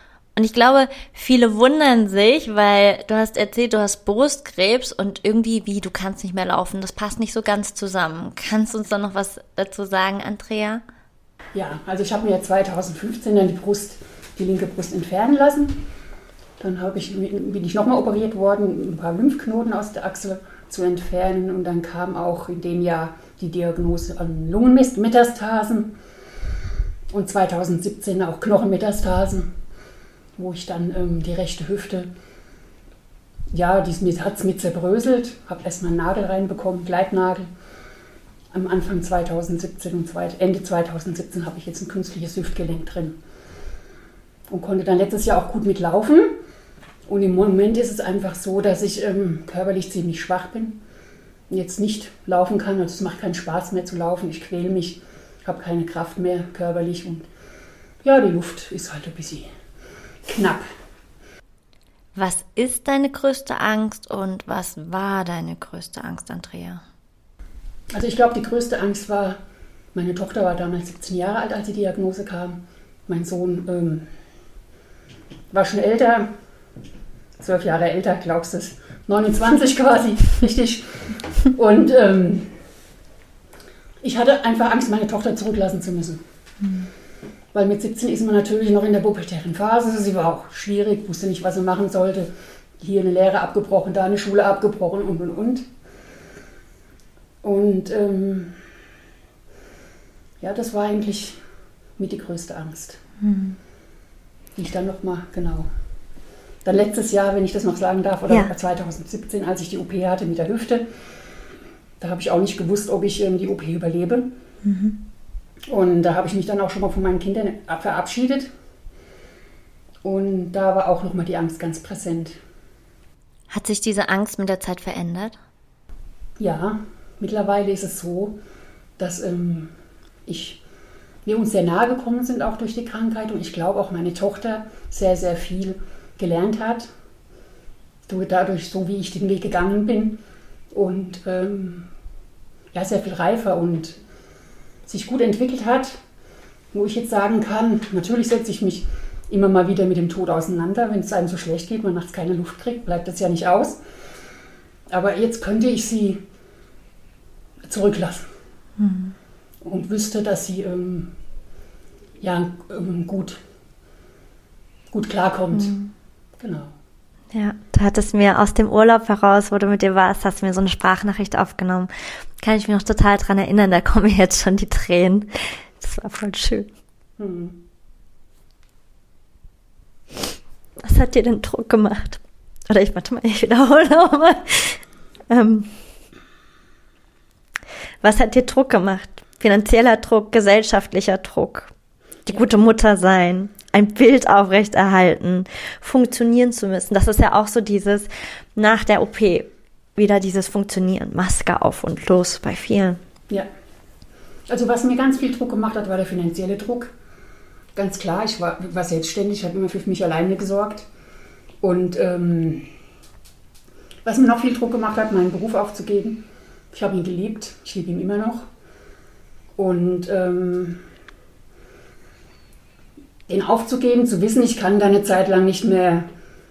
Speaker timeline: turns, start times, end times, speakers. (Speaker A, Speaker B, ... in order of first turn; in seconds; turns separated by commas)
Speaker A: 0.3-10.8, Speaker B: 11.5-15.8, Speaker B: 16.6-25.9, Speaker B: 27.1-29.5, Speaker B: 30.4-32.1, Speaker B: 33.5-37.5, Speaker B: 38.5-43.2, Speaker B: 44.5-46.3, Speaker B: 47.0-50.8, Speaker B: 51.5-57.3, Speaker B: 58.0-59.5, Speaker B: 60.3-60.6, Speaker A: 62.1-66.8, Speaker B: 67.9-69.4, Speaker B: 69.9-74.1, Speaker B: 75.5-76.3, Speaker B: 77.4-82.6, Speaker B: 84.0-86.2, Speaker B: 87.5-95.7, Speaker B: 97.4-98.6, Speaker B: 100.4-101.4, Speaker B: 102.0-103.0, Speaker A: 103.2-103.6, Speaker B: 104.5-105.7, Speaker B: 106.6-110.8, Speaker B: 112.0-114.3, Speaker A: 114.6-115.0, Speaker B: 115.7-118.5, Speaker B: 120.0-122.4, Speaker A: 123.5-125.3, Speaker B: 126.4-128.4, Speaker B: 129.0-129.7, Speaker B: 130.2-130.6, Speaker B: 131.2-136.9, Speaker B: 138.1-141.9, Speaker B: 142.7-144.0, Speaker B: 144.9-146.0, Speaker B: 146.7-153.8, Speaker B: 154.9-156.2, Speaker B: 157.6-158.3, Speaker A: 158.8-159.1, Speaker B: 159.6-161.1, Speaker B: 162.2-163.4, Speaker B: 164.9-165.7, Speaker A: 165.5-165.9, Speaker B: 166.4-166.7, Speaker A: 167.3-176.7, Speaker B: 177.2-177.6, Speaker A: 180.8-185.7, Speaker A: 188.0-191.7, Speaker A: 192.3-203.0, Speaker B: 204.5-206.9, Speaker B: 207.7-210.9, Speaker B: 211.6-212.7, Speaker B: 214.0-218.4, Speaker B: 219.6-220.8, Speaker B: 223.3-226.1